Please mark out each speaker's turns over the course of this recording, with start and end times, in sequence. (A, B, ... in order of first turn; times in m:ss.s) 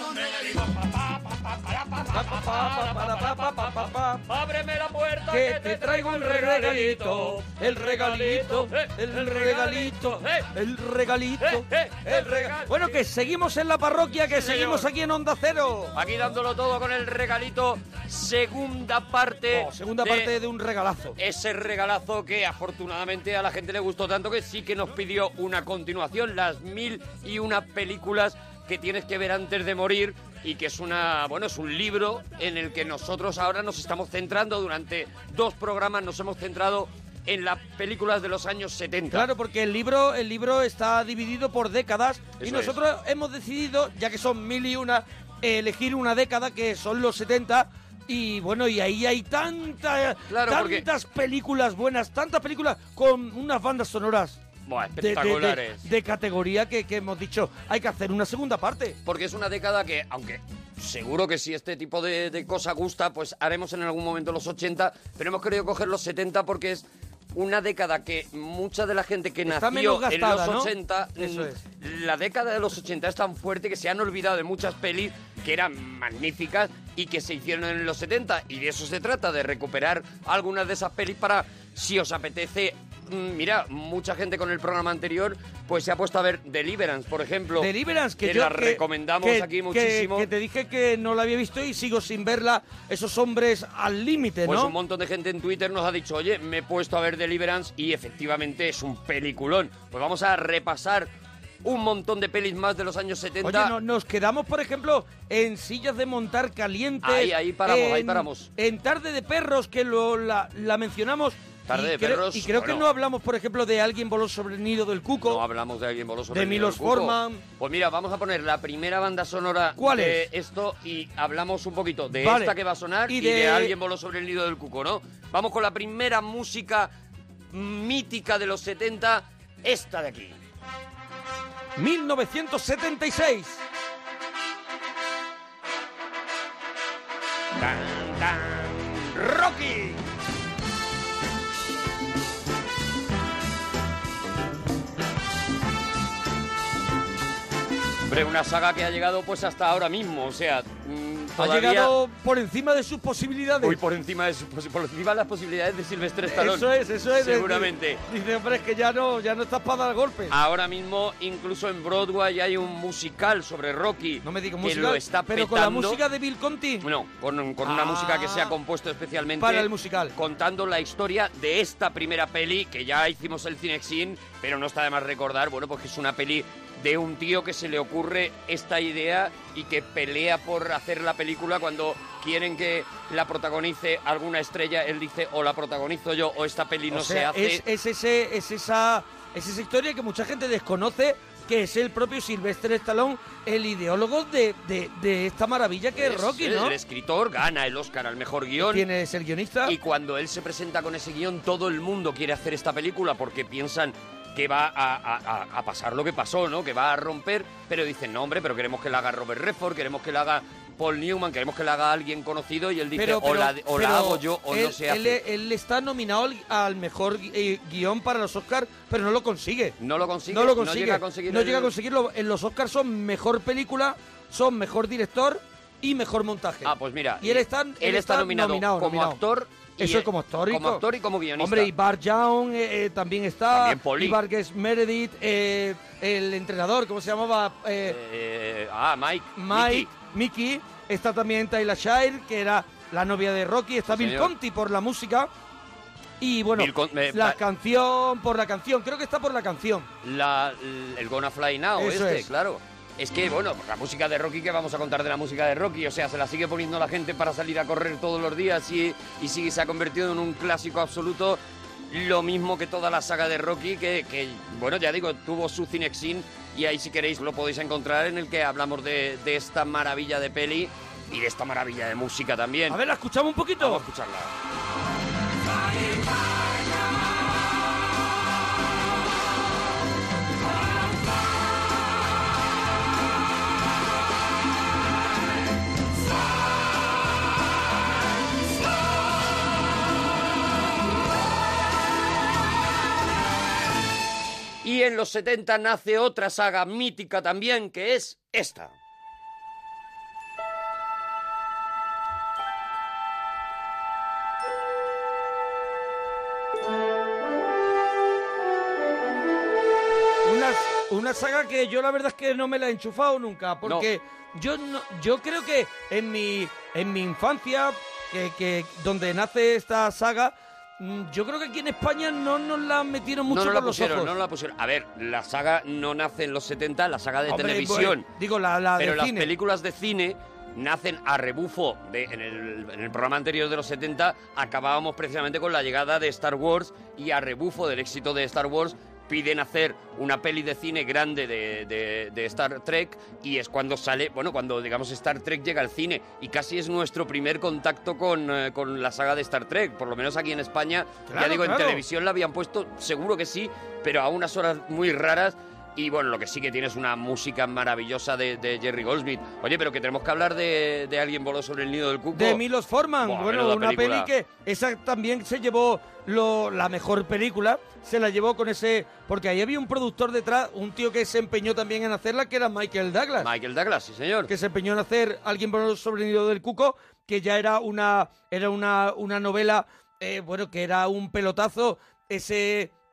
0:01.7-0:10.5 A
0:02.1-0:04.2 B
0:05.3-0:15.9 B
0:11.4-0:13.0 A
0:14.3-0:14.9 A
0:15.9-0:20.3 A
0:19.5-0:21.2 B
0:21.2-0:39.3 A
0:39.1-0:54.4 B
0:42.4-0:42.8 A
0:50.3-0:50.8 A
0:54.6-0:55.9 A
0:55.0-0:59.0 B
0:59.0-1:27.7 A
1:09.5-1:11.6 B
1:27.6-1:34.7 B
1:28.2-1:30.3 A
1:34.4-1:41.1 A
1:41.6-1:43.7 A
1:43.4-1:55.4 B
1:47.0-1:48.5 A
1:51.7-1:52.9 A
1:55.2-2:06.9 A
1:56.3-1:57.4 B
1:59.8-2:00.3 B
2:02.2-2:03.7 B
2:07.5-2:10.4 A
2:11.8-2:13.6 B
2:17.6-2:20.0 A
2:28.0-2:31.9 A
2:31.4-2:33.8 B
2:33.6-2:38.0 A
2:36.2-2:40.4 B
2:40.3-2:46.0 A
2:44.2-2:46.9 B
2:46.8-3:07.6 A
2:47.6-2:48.6 B
2:49.4-2:50.1 B
3:06.9-3:16.8 B
3:15.9-3:18.9 A
3:18.6-3:19.8 B
3:19.6-3:35.2 A
3:32.9-3:39.8 B
3:39.8-3:41.7 A
3:40.3-3:49.2 B
3:46.6-3:51.7 A
3:49.8-3:50.8 B
3:51.4-3:58.0 B
3:53.5-3:54.2 A
3:57.8-3:59.9 A
3:59.4-4:05.3 B
4:03.9-4:04.3 A
4:06.2-4:09.9 B
4:06.6-4:07.4 A
4:10.0-4:32.8 A
4:11.8-4:12.3 B
4:32.7-4:33.8 B
4:33.6-4:34.3 A
4:54.6-4:58.7 A
5:10.2-5:24.1 B
5:23.3-5:28.1 A
5:27.3-5:29.3 B
5:28.8-6:02.4 A
5:51.1-5:51.8 B
6:02.1-6:13.3 B
6:03.0-6:04.1 A
6:13.2-6:14.3 A
6:14.3-6:22.7 B